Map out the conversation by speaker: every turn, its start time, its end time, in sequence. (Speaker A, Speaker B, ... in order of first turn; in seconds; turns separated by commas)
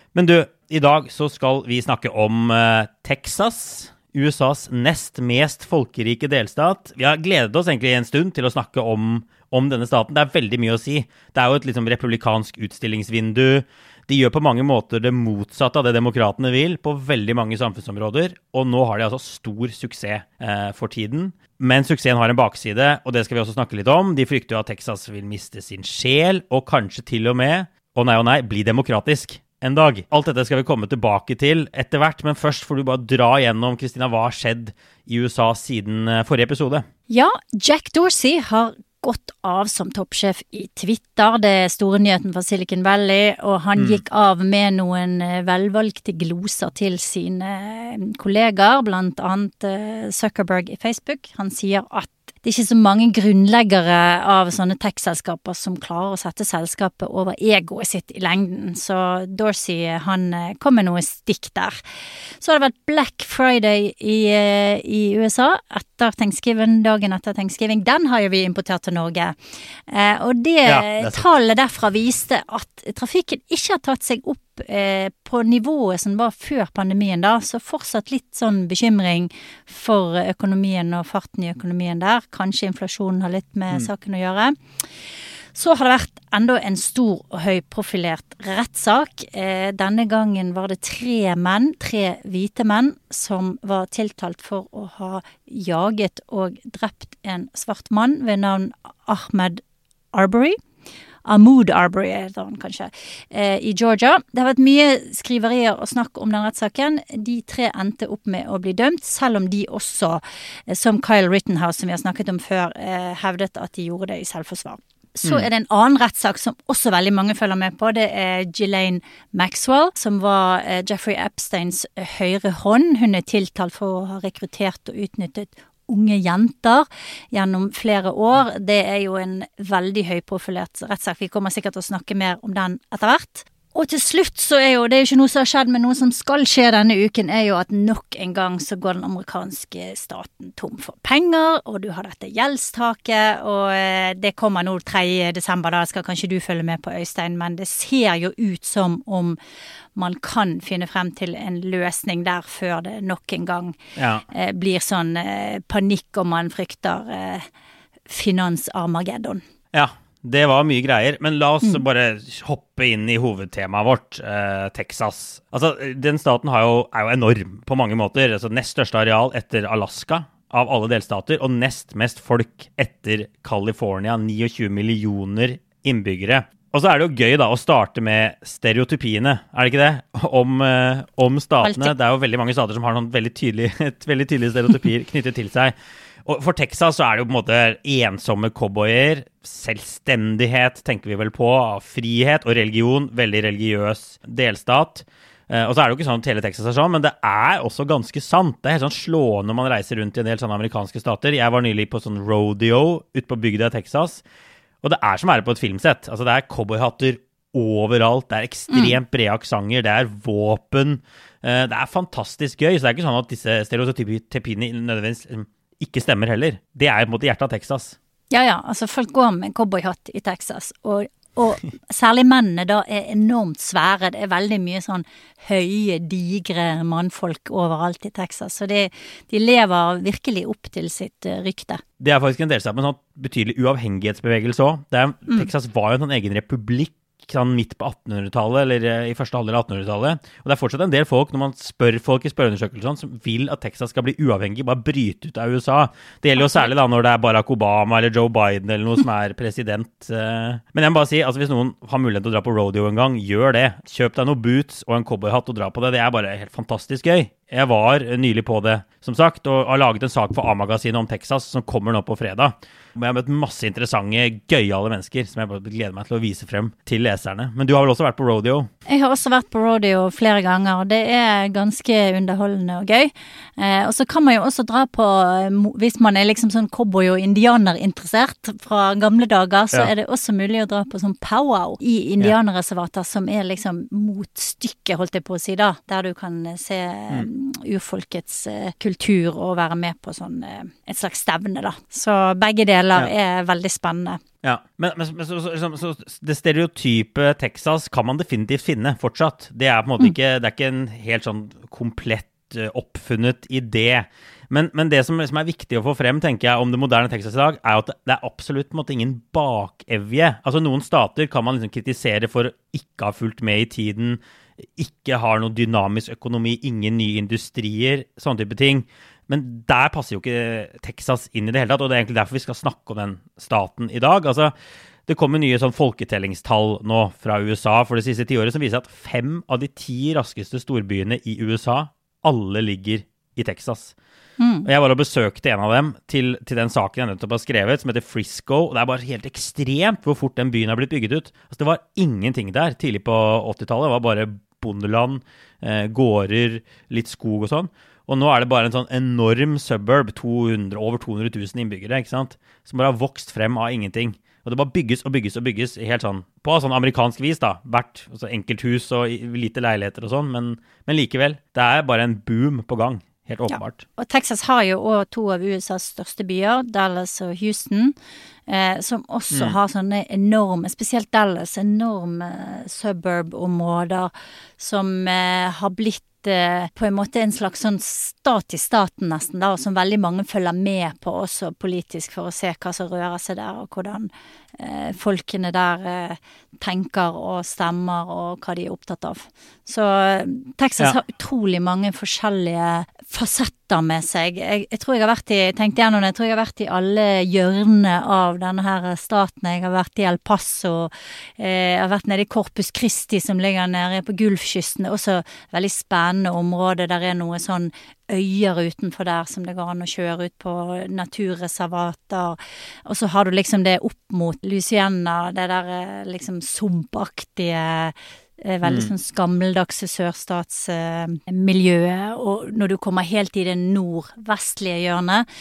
Speaker A: 0.1-36.9, Speaker B: 37.1-61.8, Speaker B: 62.4-69.4, Speaker B: 69.9-99.6, Speaker A: 70.7-71.3, Speaker B: 100.1-100.6, Speaker B: 101.2-149.4, Speaker B: 149.9-153.8, Speaker A: 154.0-154.2, Speaker B: 154.3-157.5, Speaker B: 158.1-159.4, Speaker A: 159.7-185.7, Speaker B: 181.6-181.9, Speaker A: 186.2-204.2, Speaker A: 204.8-218.0, Speaker B: 208.7-209.0, Speaker B: 218.3-231.8, Speaker A: 232.0-268.7, Speaker B: 246.4-246.7, Speaker B: 268.9-294.2, Speaker A: 294.4-314.2, Speaker A: 314.8-324.5, Speaker A: 325.1-333.9, Speaker B: 334.4-334.7, Speaker A: 334.6-363.9, Speaker B: 363.5-367.9, Speaker B: 368.5-425.3, Speaker A: 418.6-418.9